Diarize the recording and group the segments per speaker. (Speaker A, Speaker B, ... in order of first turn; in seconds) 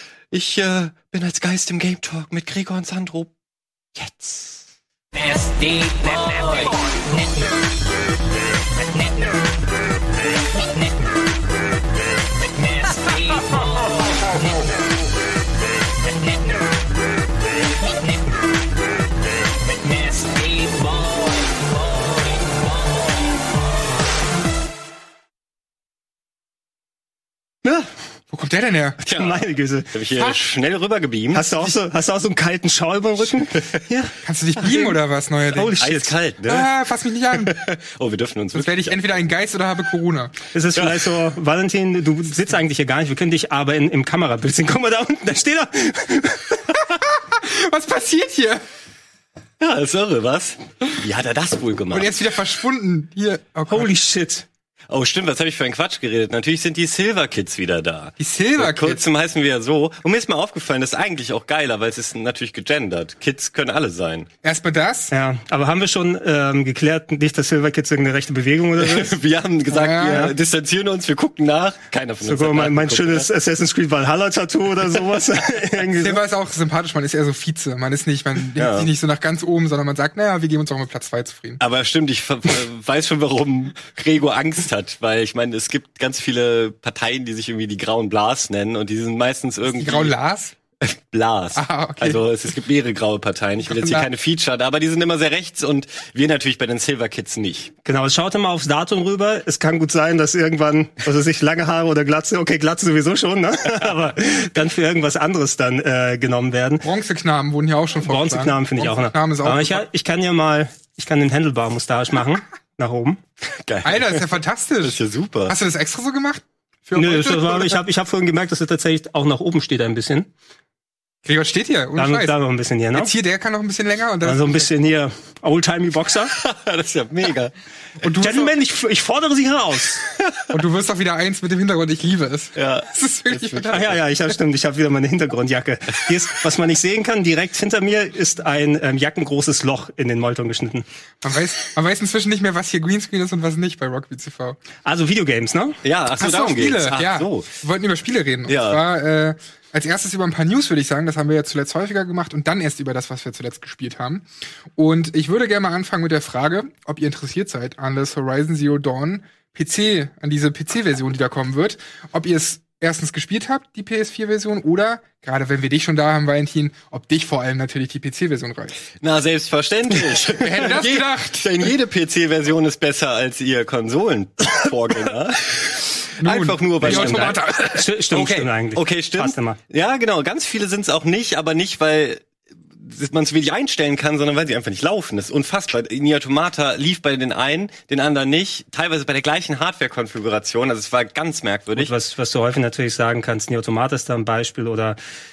Speaker A: 0.3-3.3, 4.0-4.7, 5.2-6.7, 27.6-27.9, 29.0-31.8, 35.8-36.7, 37.3-39.0, 40.8-41.1, 49.6-52.2, 54.9-64.3, 68.8-73.3, 78.6-78.9, 81.6-90.1, 90.8-97.7, 113.5-115.5, 126.4-127.5, 132.6-134.0, 145.8-147.5, 148.5-148.8, 169.0-182.3, 182.8-191.9
Speaker B: 28.3-29.0, 34.2-35.8, 36.5-37.6, 38.5-40.3, 47.1-48.6, 51.9-53.9, 58.2-59.0, 64.4-65.1, 69.7-70.3, 76.0-81.6, 89.7-90.5, 91.5-92.2, 93.6-94.1, 106.8-109.8, 113.8-117.8, 121.2-122.3, 123.0-124.7, 128.0-128.5, 130.5-133.9, 141.2-144.6, 146.2-168.8, 169.9-171.8, 176.2-178.5
Speaker C: 29.1-30.3, 31.3-35.0, 35.5-36.1, 40.5-46.6, 53.7-54.5, 65.1-69.2, 70.0-70.3, 72.2-76.2, 97.8-106.9, 108.0-113.2, 117.0-120.3, 122.0-123.1, 124.2-126.3, 128.2-130.1, 133.7-140.8, 144.8-145.8, 176.8-179.6, 191.8-195.0